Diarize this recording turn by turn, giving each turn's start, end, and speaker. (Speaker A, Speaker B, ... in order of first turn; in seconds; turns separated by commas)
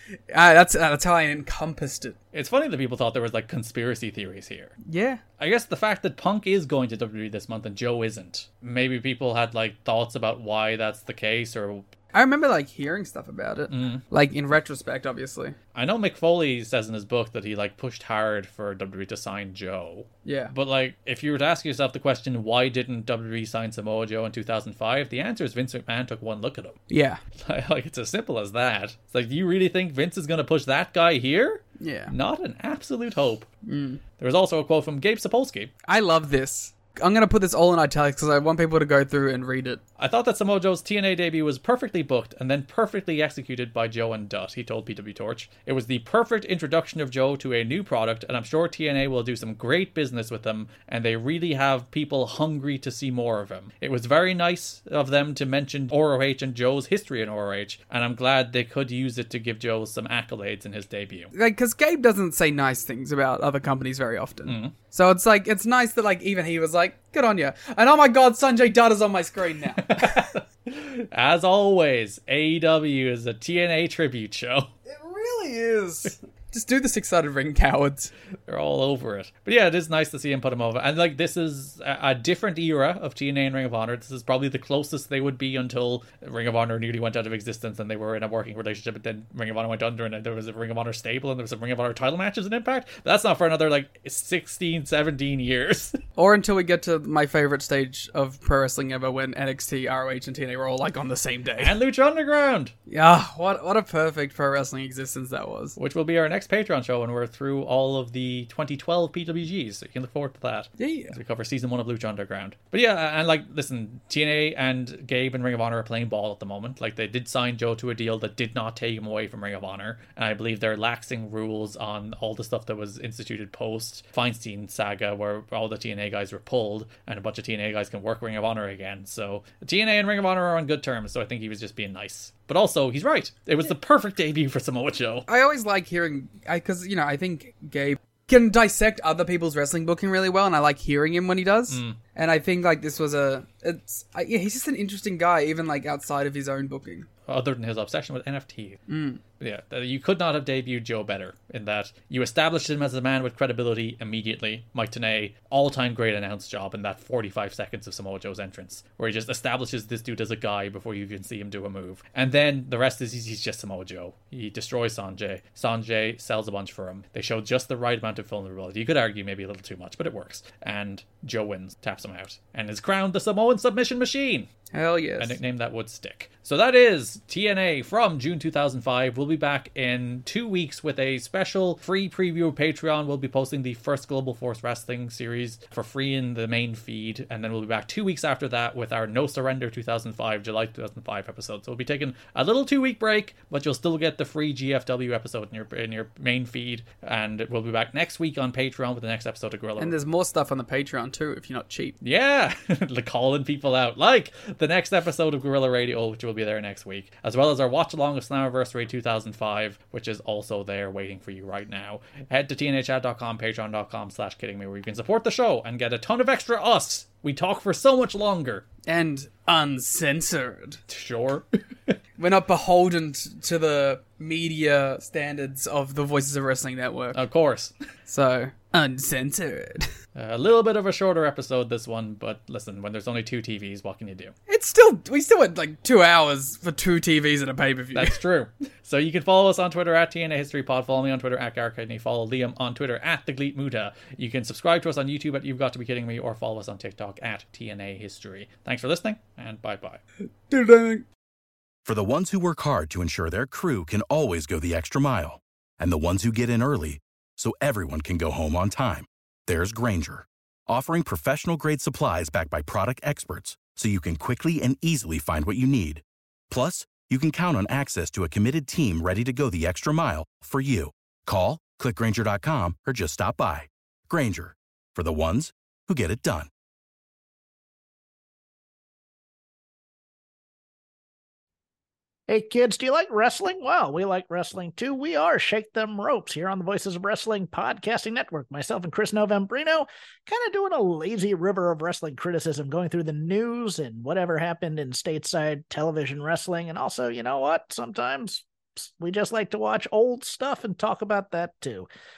Speaker A: 0.3-2.1, Speaker B: 2.3-4.7, Speaker A: 4.8-5.2, Speaker B: 5.4-11.9, Speaker A: 12.1-15.6, Speaker B: 13.7-14.0, Speaker B: 15.7-26.8, Speaker A: 20.2-20.5, Speaker A: 26.9-27.2, Speaker B: 27.4-33.5, Speaker A: 31.8-32.1, Speaker A: 33.6-34.0, Speaker B: 34.2-35.7, Speaker A: 35.9-39.8, Speaker B: 40.0-61.3, Speaker A: 61.3-70.2, Speaker B: 64.5-64.7, Speaker B: 69.8-74.7, Speaker A: 74.8-78.1, Speaker B: 78.5-96.0, Speaker A: 96.2-101.7, Speaker B: 101.6-102.7, Speaker A: 102.9-105.8, Speaker B: 105.8-135.2, Speaker A: 110.8-111.2, Speaker A: 135.3-147.1, Speaker B: 141.7-142.0, Speaker B: 147.2-148.8, Speaker A: 148.9-149.2, Speaker B: 149.4-174.5, Speaker A: 174.7-175.4, Speaker B: 175.2-199.9, Speaker A: 199.8-201.9, Speaker B: 202.0-218.6, Speaker A: 218.8-220.8, Speaker B: 220.9-221.9, Speaker A: 222.2-227.2, Speaker B: 227.1-227.7, Speaker A: 228.1-229.9, Speaker B: 230.1-234.3, Speaker A: 234.5-238.2, Speaker B: 237.9-250.0, Speaker A: 250.5-251.0, Speaker C: 251.8-276.5, Speaker D: 282.3-301.9